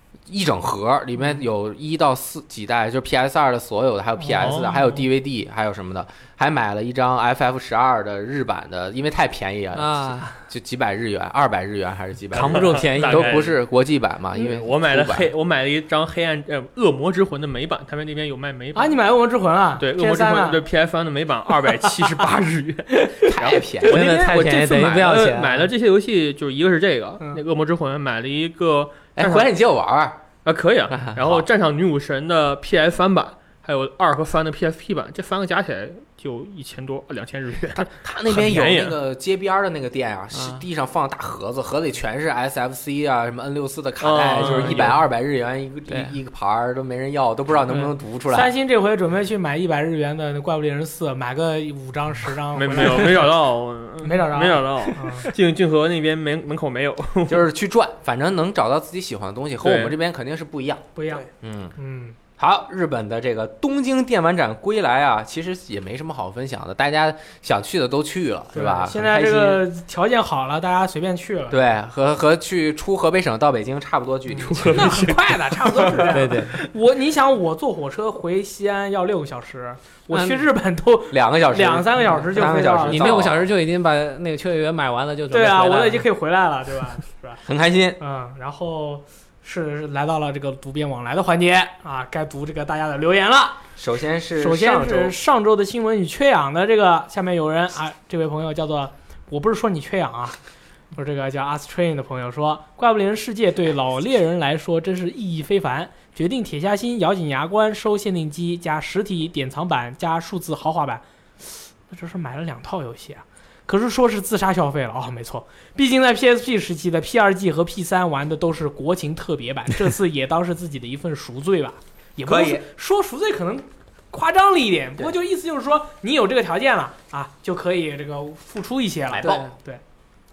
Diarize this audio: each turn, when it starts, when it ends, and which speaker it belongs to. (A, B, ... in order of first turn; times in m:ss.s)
0:00.3-0:15.3 A
0:04.3-0:04.5 B
0:04.3-0:04.8 C
0:09.7-0:10.4 D
0:12.3-0:13.4 D
0:12.3-0:13.5 C
0:14.4-0:19.0 C
0:18.7-0:20.6 B
0:19.8-0:29.5 C
0:23.3-0:24.1 A
0:23.8-0:25.7 D
0:24.0-0:24.3 B
0:29.2-0:30.2 A
0:30.4-0:39.0 C
0:30.9-0:31.4 A
0:37.8-0:48.5 A
0:40.3-0:40.6 D
0:44.0-0:45.0 C
0:45.9-0:46.1 D
0:48.3-0:53.3 B
0:52.5-0:57.4 C
0:54.0-0:55.3 B
0:57.3-1:01.7 A
0:59.6-0:59.9 C
1:01.0-1:02.2 B
1:02.4-1:09.6 A
1:08.5-1:11.6 B
1:11.5-1:16.1 A
1:14.3-1:23.2 B
1:14.4-1:15.3 C
1:16.1-1:16.6 D
1:20.1-1:20.5 D
1:21.1-1:23.5 A
1:22.4-1:26.0 D
1:25.3-1:27.4 B
1:27.4-1:28.0 A
1:28.0-1:33.6 B
1:33.8-1:35.2 A
1:34.4-1:40.4 B
1:40.9-2:09.8 B
2:02.2-2:02.6 A
2:09.1-2:09.5 A